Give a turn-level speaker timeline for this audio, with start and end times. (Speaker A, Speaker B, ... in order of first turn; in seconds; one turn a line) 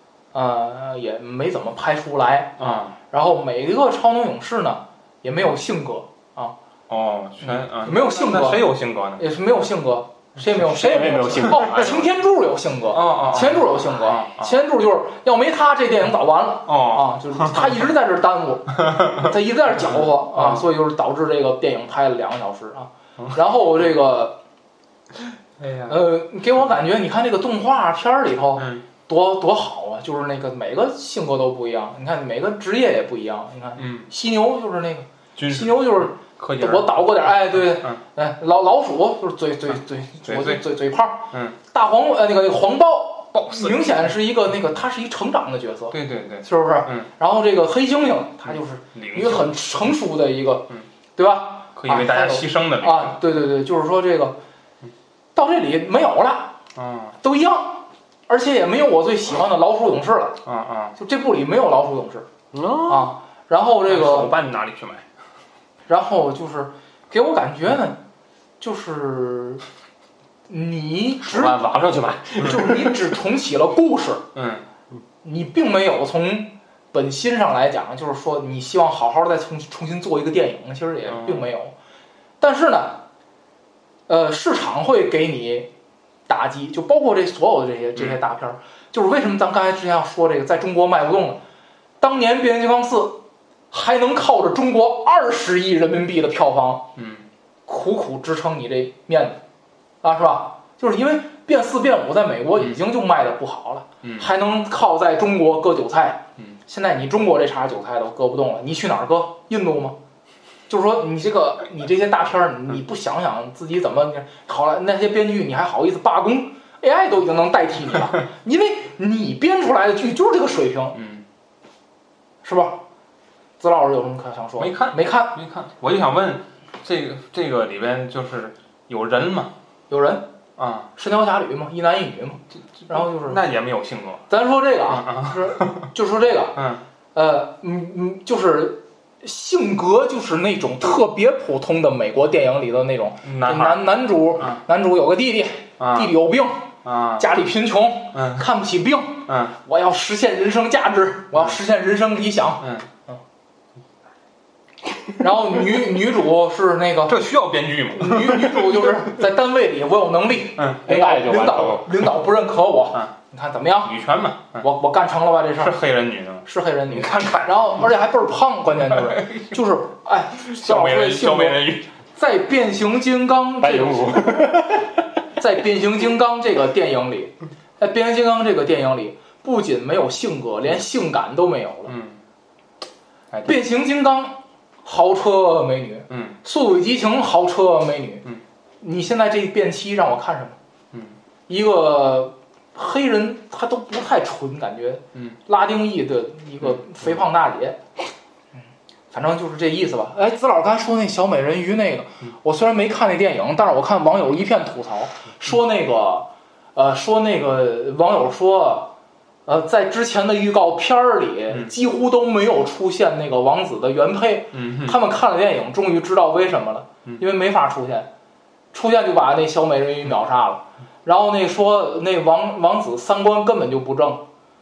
Speaker A: 0.3-6.5
Speaker B: 2.6-2.9
Speaker B: 6.9-9.2
Speaker A: 7.4-24.4
Speaker C: 10.6-12.1
Speaker B: 12.9-14.5
Speaker B: 16.6-17.9
Speaker B: 25.6-26.0
Speaker A: 25.9-54.4
Speaker B: 28.6-28.8
Speaker B: 33.8-34.1
Speaker B: 35.4-38.0
Speaker B: 40.2-40.6
Speaker B: 43.3-43.8
Speaker B: 45.9-47.1
Speaker B: 48.5-49.5
Speaker B: 51.8-53.2
Speaker A: 55.3-56.5
Speaker B: 56.8-57.1
Speaker A: 57.2-60.4
Speaker B: 60.4-60.9
Speaker A: 61.0-62.3
Speaker C: 62.5-63.1
Speaker A: 62.9-64.3
Speaker B: 63.9-65.0
Speaker A: 65.9-68.0
Speaker A: 68.6-69.6
Speaker A: 70.5-71.6
Speaker C: 71.2-73.0
Speaker A: 72.4-74.2
Speaker B: 74.3-74.6
Speaker A: 75.2-81.7
Speaker B: 81.0-81.5
Speaker A: 82.4-83.0
Speaker A: 84.1-85.7
Speaker A: 86.3-91.4
Speaker A: 92.0-96.9
Speaker B: 97.0-97.3
Speaker A: 97.7-99.4
Speaker A: 100.0-110.0
Speaker B: 104.0-104.3
Speaker A: 110.7-121.0
Speaker B: 120.9-121.2
Speaker A: 122.4-122.8
Speaker A: 123.6-125.3
Speaker B: 124.6-129.5
Speaker A: 129.9-130.3
Speaker B: 130.6-130.9
Speaker A: 130.9-133.4
Speaker B: 132.8-134.2
Speaker A: 134.3-136.6
Speaker B: 134.9-135.9
Speaker B: 136.5-136.8
Speaker A: 137.1-153.2
Speaker B: 143.2-143.8
Speaker B: 145.8-146.1
Speaker B: 146.8-147.2
Speaker B: 148.1-148.4
Speaker B: 149.3-149.6
Speaker B: 152.6-152.9
Speaker A: 155.2-157.2
Speaker B: 157.1-158.9
Speaker A: 157.9-163.9
Speaker B: 160.6-160.8
Speaker C: 160.8-161.9
Speaker B: 163.8-164.6
Speaker A: 164.6-165.8
Speaker B: 165.6-167.8
Speaker A: 166.4-174.7
Speaker B: 168.9-169.6
Speaker B: 170.4-171.8
Speaker C: 173.6-174.9
Speaker A: 175.4-181.9
Speaker B: 181.9-182.2
Speaker B: 183.3-183.6
Speaker A: 183.4-188.2
Speaker B: 186.1-186.3
Speaker A: 188.8-190.6
Speaker A: 191.5-197.8
Speaker A: 199.1-208.9
Speaker A: 209.4-218.1
Speaker B: 214.5-215.0
Speaker A: 218.7-224.2